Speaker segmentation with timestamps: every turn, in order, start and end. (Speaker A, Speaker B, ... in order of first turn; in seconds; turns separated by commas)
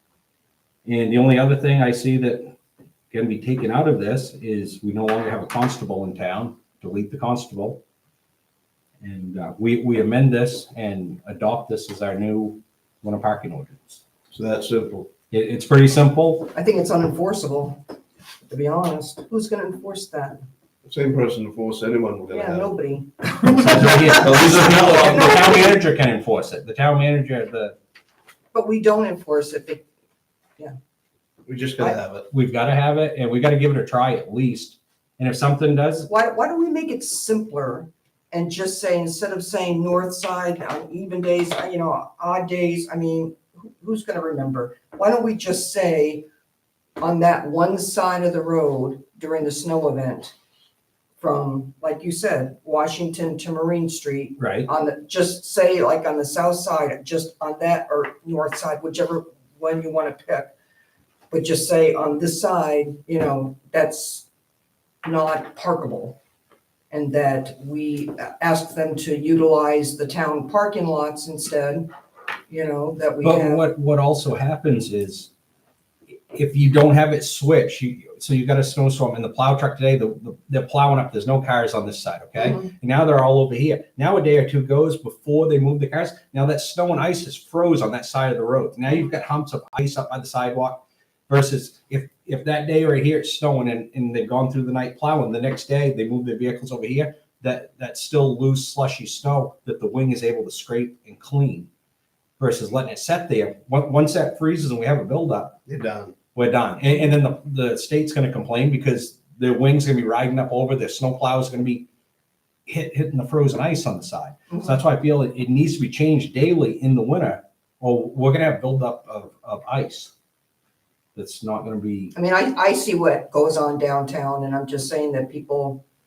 Speaker A: 0.8-2.5, Speaker A: 3.1-7.8, Speaker A: 9.0-14.0, Speaker B: 14.3-15.1, Speaker A: 15.3-16.5, Speaker C: 16.5-17.8, Speaker C: 18.5-20.4, Speaker B: 20.8-22.7, Speaker C: 22.3-25.8, Speaker A: 23.4-27.8, Speaker B: 24.1-25.3, Speaker C: 28.5-29.8, Speaker B: 31.5-32.3, Speaker A: 32.3-36.1, Speaker C: 36.1-46.2, Speaker C: 47.0-50.3, Speaker C: 51.2-60.5, Speaker A: 54.4-54.7, Speaker C: 61.3-64.3, Speaker C: 65.0-66.2, Speaker C: 66.9-71.9, Speaker C: 72.5-73.6, Speaker A: 73.2-75.3, Speaker A: 76.3-101.7, Speaker C: 82.4-82.7, Speaker A: 102.4-105.6, Speaker B: 105.7-106.1, Speaker A: 106.3-111.9, Speaker A: 112.7-120.1, Speaker C: 114.5-114.8, Speaker A: 121.1-122.1, Speaker C: 122.1-125.8